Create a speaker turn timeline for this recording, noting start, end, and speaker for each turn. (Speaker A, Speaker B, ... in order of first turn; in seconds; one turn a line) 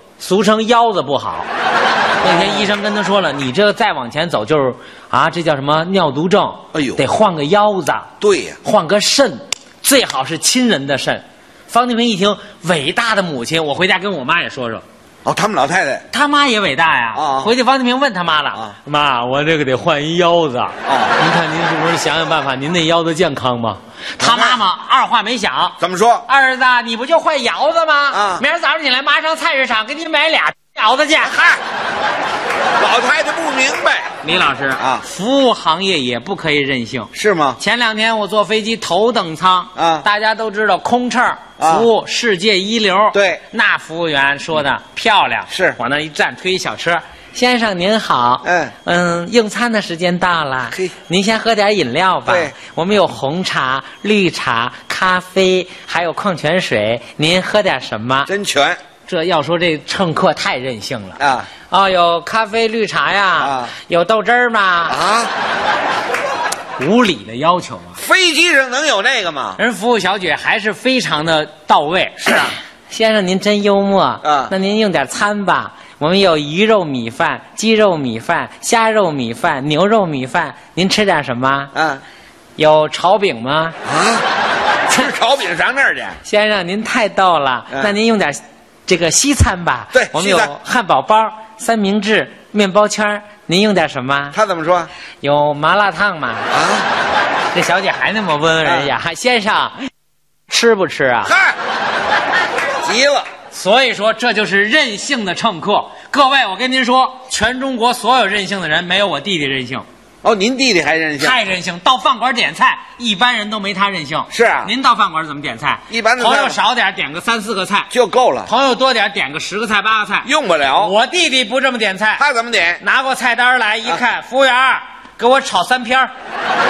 Speaker A: 0.2-1.5
Speaker A: 2.2-14.8
Speaker B: 6.7-7.0
Speaker B: 8.2-8.6
Speaker B: 15.2-16.0
Speaker A: 16.1-31.4
Speaker B: 17.2-17.5
Speaker B: 24.2-24.6
Speaker B: 25.8-26.2
Speaker B: 28.1-28.4
Speaker B: 31.3-31.6
Speaker B: 32.8-34.1
Speaker A: 34.2-58.3
Speaker B: 37.1-37.6
Speaker B: 39.8-40.0
Speaker B: 41.6-41.9
Speaker B: 43.1-43.4
Speaker B: 45.5-45.8
Speaker B: 48.5-48.7
Speaker B: 52.3-52.5
Speaker B: 58.3-58.8
Speaker A: 59.0-65.0
Speaker B: 61.2-61.5
Speaker B: 63.4-63.7
Speaker B: 64.9-65.3
Speaker A: 66.8-68.0
Speaker B: 68.0-69.6
Speaker A: 69.6-81.7
Speaker B: 74.2-74.5
Speaker B: 81.8-82.0
Speaker A: 82.6-83.8
Speaker B: 83.9-84.2
Speaker B: 84.9-86.2
Speaker A: 86.2-94.4
Speaker B: 89.9-90.5
Speaker B: 94.3-94.9
Speaker A: 95.2-96.5
Speaker B: 96.5-96.8
Speaker A: 97.5-99.8
Speaker A: 100.5-101.4
Speaker B: 101.3-101.5
Speaker B: 102.8-103.3
Speaker A: 103.5-109.8
Speaker B: 110.2-111.4
Speaker A: 111.2-117.9
Speaker B: 114.3-114.7
Speaker B: 115.9-116.6
Speaker B: 117.9-118.5
Speaker A: 118.5-122.2
Speaker B: 120.2-120.9
Speaker B: 122.2-122.8
Speaker A: 122.8-126.1